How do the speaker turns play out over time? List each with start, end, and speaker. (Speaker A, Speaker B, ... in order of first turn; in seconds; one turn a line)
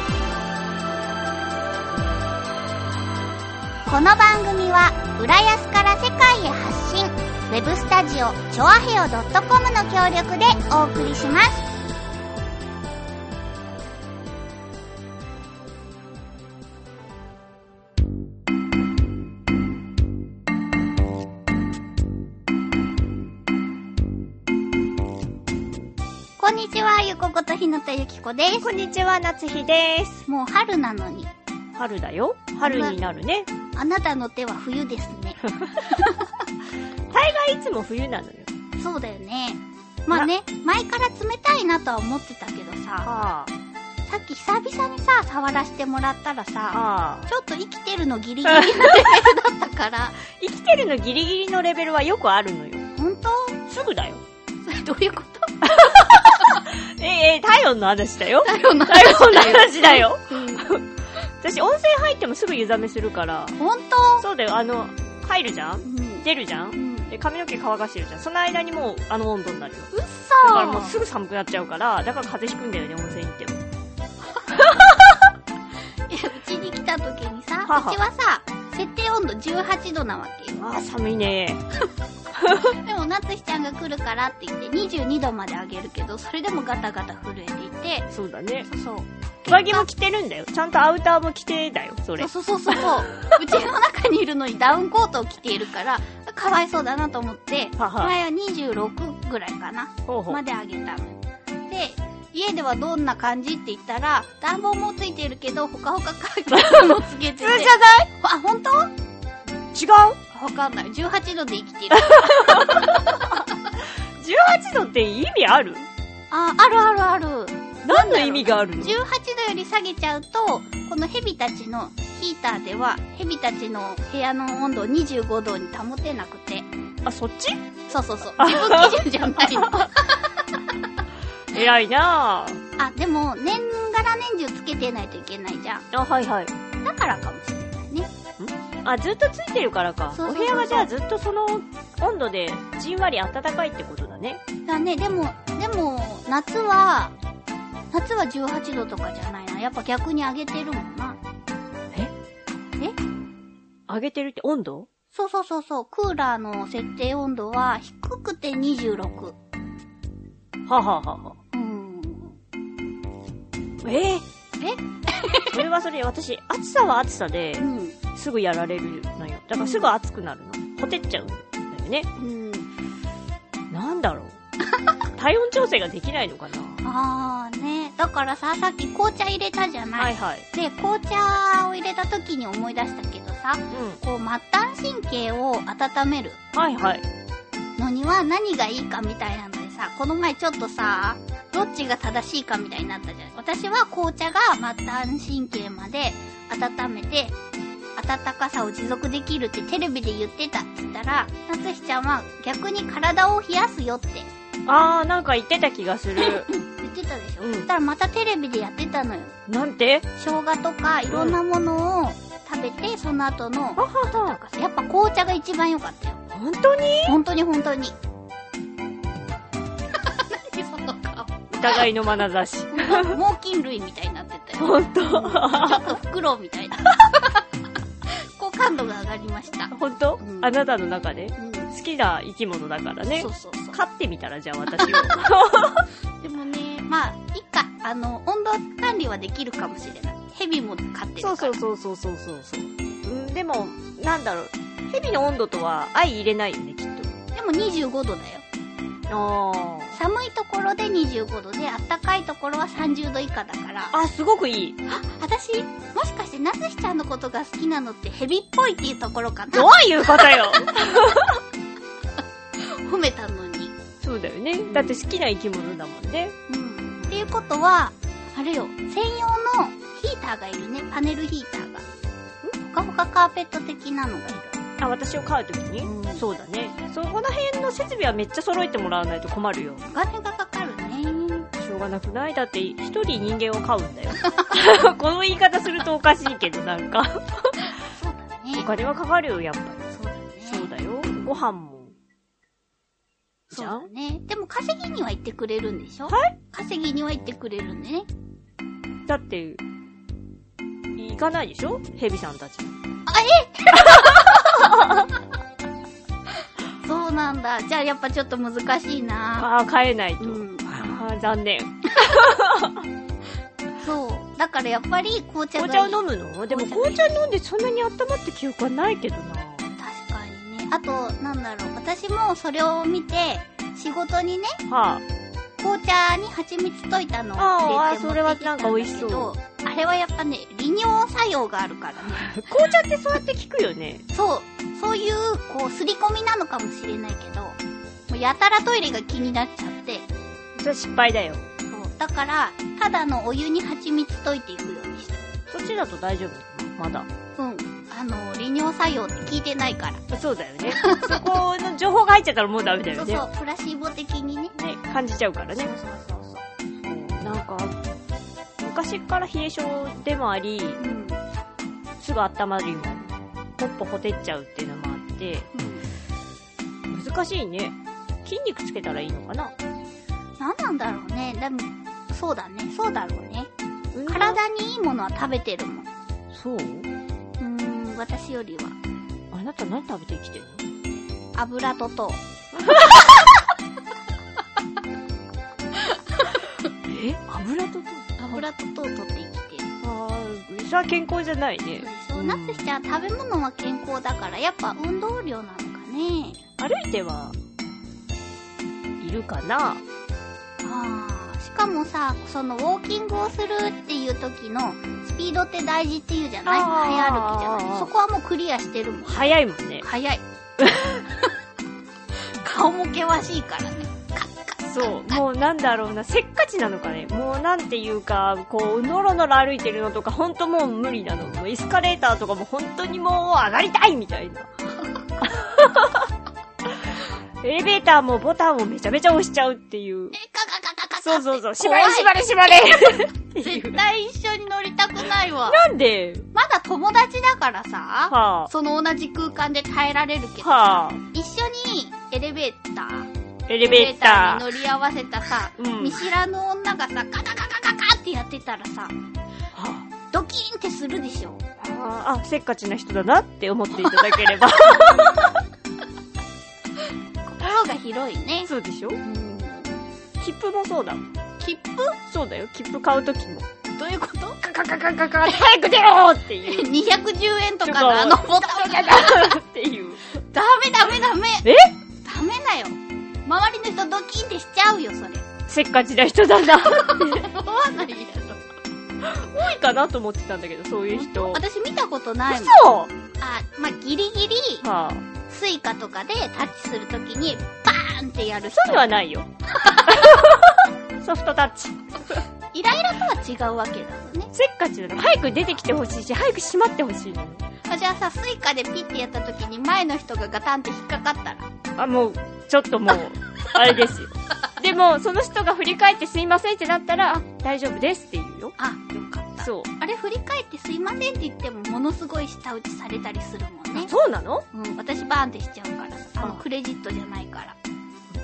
Speaker A: 3.9-11.7
Speaker A: 26.4-28.7
Speaker B: 28.6-30.2
Speaker A: 30.3-31.3
Speaker B: 31.7-33.5
Speaker A: 32.6-33.0
Speaker A: 33.7-36.4
Speaker B: 37.1-38.5
Speaker A: 38.8-43.1
Speaker B: 43.0-43.5
Speaker A: 44.1-50.2
Speaker B: 46.7-47.3
Speaker B: 48.4-49.3
Speaker B: 50.3-52.9
Speaker A: 52.9-53.6
Speaker B: 53.7-54.2
Speaker A: 54.6-56.6
Speaker B: 55.6-60.9
Speaker A: 58.4-60.6
Speaker B: 61.4-63.6
Speaker A: 63.6-64.2
Speaker B: 64.2-69.9
Speaker A: 65.8-67.1
Speaker A: 69.9-70.9
Speaker B: 70.4-73.6
Speaker A: 74.4-74.9
Speaker A: 76.1-80.6
Speaker B: 77.7-78.0
Speaker B: 80.6-81.6
Speaker B: 82.3-82.8
Speaker A: 82.6-88.1
Speaker B: 88.1-88.7
Speaker A: 88.7-89.9
Speaker B: 89.5-93.1
Speaker A: 92.2-108.9
Speaker B: 97.8-98.1
Speaker B: 100.1-100.4
Speaker B: 106.5-108.1
Speaker B: 109.7-110.2
Speaker A: 110.3-113.5
Speaker B: 112.0-113.3
Speaker B: 114.2-115.9
Speaker A: 116.3-126.7
Speaker B: 117.8-119.0
Speaker B: 127.0-127.6
Speaker A: 127.9-130.6
Speaker B: 128.4-129.8
Speaker B: 131.5-132.6
Speaker A: 132.8-135.8
Speaker B: 135.9-136.5
Speaker A: 136.8-138.1
Speaker B: 138.4-144.4
Speaker A: 140.1-140.9
Speaker A: 144.7-147.1
Speaker A: 147.9-151.2
Speaker B: 153.9-154.9
Speaker A: 155.1-159.3
Speaker B: 160.7-161.4
Speaker A: 161.5-162.4
Speaker B: 163.8-164.2
Speaker A: 164.6-165.6
Speaker B: 165.5-172.1
Speaker A: 167.6-168.0
Speaker A: 169.6-169.9
Speaker A: 172.2-172.7
Speaker B: 173.7-174.4
Speaker B: 175.2-176.8
Speaker A: 176.8-186.4
Speaker B: 180.0-180.4
Speaker B: 183.7-184.0
Speaker B: 186.5-187.0
Speaker A: 187.8-197.3
Speaker A: 197.9-204.3
Speaker B: 204.7-206.5
Speaker A: 206.2-209.3
Speaker B: 207.4-207.7
Speaker B: 209.5-210.1
Speaker A: 210.1-216.2
Speaker B: 211.1-211.4
Speaker B: 213.8-214.4
Speaker B: 216.3-217.2
Speaker A: 217.1-217.9
Speaker A: 220.0-221.8
Speaker B: 221.5-223.2
Speaker A: 222.7-227.4
Speaker B: 224.6-225.9
Speaker A: 228.1-230.5
Speaker B: 229.7-235.8
Speaker A: 231.4-231.7
Speaker A: 233.1-233.8
Speaker A: 234.8-235.1
Speaker A: 236.2-241.6
Speaker B: 241.2-247.1
Speaker A: 247.3-248.4
Speaker B: 249.1-249.9
Speaker A: 249.9-253.9
Speaker B: 253.9-254.8
Speaker A: 254.9-261.0
Speaker B: 259.5-261.4
Speaker A: 262.6-263.7
Speaker B: 264.0-266.3
Speaker A: 264.7-265.0
Speaker A: 266.5-271.8
Speaker A: 272.6-274.6
Speaker B: 274.8-279.8
Speaker A: 275.8-276.2
Speaker A: 279.8-281.5
Speaker B: 281.6-287.7
Speaker A: 287.9-288.7
Speaker B: 288.6-289.8
Speaker A: 289.9-290.7
Speaker B: 290.4-291.9
Speaker B: 293.5-293.9
Speaker A: 293.5-298.1
Speaker B: 296.1-296.3
Speaker B: 299.1-299.6
Speaker B: 300.9-302.7
Speaker A: 303.1-305.0
Speaker A: 306.8-309.5
Speaker B: 309.4-312.8
Speaker A: 310.2-310.7
Speaker A: 313.8-317.2
Speaker B: 315.6-319.7
Speaker A: 319.8-324.6
Speaker B: 324.7-325.0
Speaker A: 325.6-332.4
Speaker B: 327.4-329.3
Speaker B: 332.2-334.0
Speaker A: 334.1-337.6
Speaker A: 338.1-340.1
Speaker B: 340.6-341.5
Speaker A: 341.7-345.2
Speaker B: 345.5-347.1
Speaker A: 347.4-350.0
Speaker B: 350.1-353.2
Speaker A: 350.6-351.3
Speaker A: 352.9-354.6
Speaker B: 354.6-355.7
Speaker A: 355.5-356.4
Speaker B: 356.8-357.8
Speaker B: 358.6-360.8
Speaker A: 360.8-361.2
Speaker B: 362.0-365.5
Speaker A: 365.5-365.9
Speaker B: 366.9-369.5
Speaker A: 370.4-373.5
Speaker B: 373.9-374.4
Speaker A: 374.1-375.9
Speaker B: 376.3-376.9
Speaker A: 377.4-378.8
Speaker B: 379.3-380.6
Speaker A: 381.3-383.0
Speaker B: 382.5-382.8
Speaker B: 386.9-388.4
Speaker A: 388.2-389.6
Speaker B: 389.8-392.7
Speaker A: 391.8-396.4
Speaker B: 396.6-397.4
Speaker B: 399.0-399.8
Speaker A: 400.6-410.2
Speaker B: 406.4-407.9
Speaker B: 409.1-409.8
Speaker B: 410.6-411.0
Speaker A: 412.2-415.0
Speaker B: 414.7-424.5
Speaker B: 425.2-426.1
Speaker B: 427.4-430.1
Speaker A: 430.1-432.7
Speaker B: 431.0-433.8
Speaker A: 433.3-435.6
Speaker B: 435.4-436.3
Speaker A: 436.3-443.1
Speaker B: 438.1-438.5
Speaker B: 440.4-441.0
Speaker B: 443.5-444.4
Speaker A: 443.6-448.9
Speaker B: 445.6-446.0
Speaker B: 449.5-449.9
Speaker A: 450.1-451.4
Speaker B: 451.6-455.4
Speaker A: 453.9-454.2
Speaker A: 457.2-458.5
Speaker B: 458.4-459.0
Speaker A: 459.0-459.8
Speaker B: 460.2-461.1
Speaker A: 461.4-462.0
Speaker B: 462.1-463.4
Speaker A: 463.8-464.4
Speaker B: 464.4-466.7
Speaker A: 466.4-469.4
Speaker B: 467.6-470.0
Speaker A: 470.2-471.5
Speaker B: 471.4-471.7
Speaker A: 472.0-475.3
Speaker B: 475.5-477.2
Speaker A: 476.6-478.4
Speaker B: 479.0-481.4
Speaker A: 480.9-484.6
Speaker B: 482.3-482.9
Speaker B: 484.6-485.0
Speaker A: 485.3-488.9
Speaker B: 488.6-489.3
Speaker A: 489.6-490.1
Speaker B: 489.9-491.8
Speaker A: 492.5-494.3
Speaker B: 494.3-497.4
Speaker A: 497.6-501.5
Speaker B: 501.8-508.6
Speaker A: 508.6-513.9
Speaker B: 509.4-509.7
Speaker B: 513.7-514.5
Speaker A: 514.5-517.5